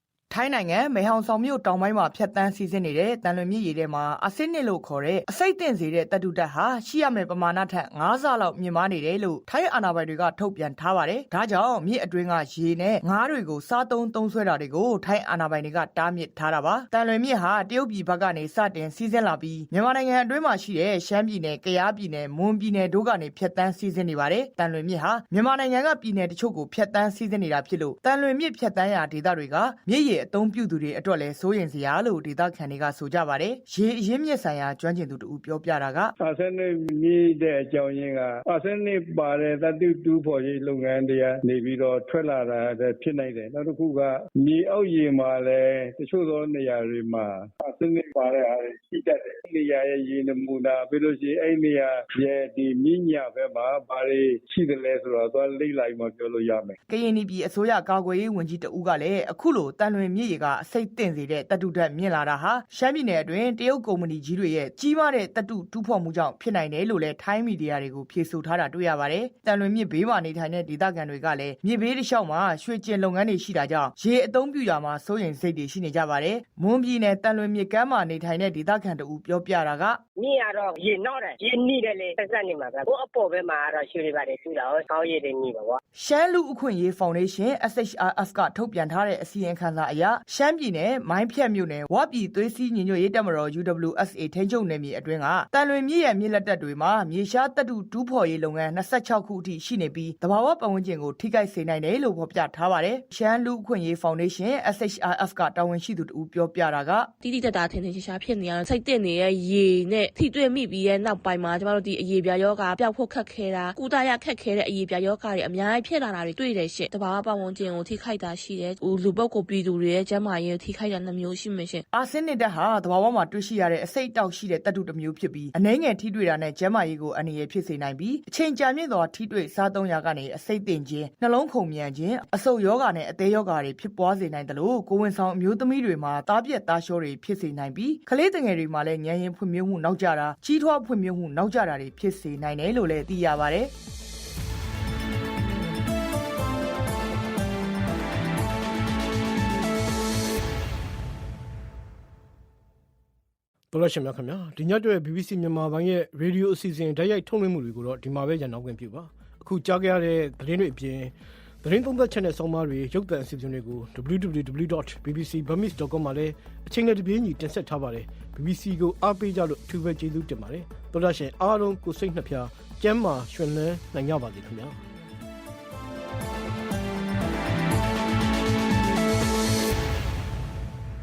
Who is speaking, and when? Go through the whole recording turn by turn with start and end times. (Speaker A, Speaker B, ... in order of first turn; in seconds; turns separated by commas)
Speaker A: 0.3-36.1, Speaker B: 36.2-56.7, Speaker A: 56.9-80.0, Speaker C: 80.2-85.8, Speaker A: 86.0-107.1, Speaker D: 107.2-121.8, Speaker A: 121.9-143.7, Speaker E: 153.7-174.8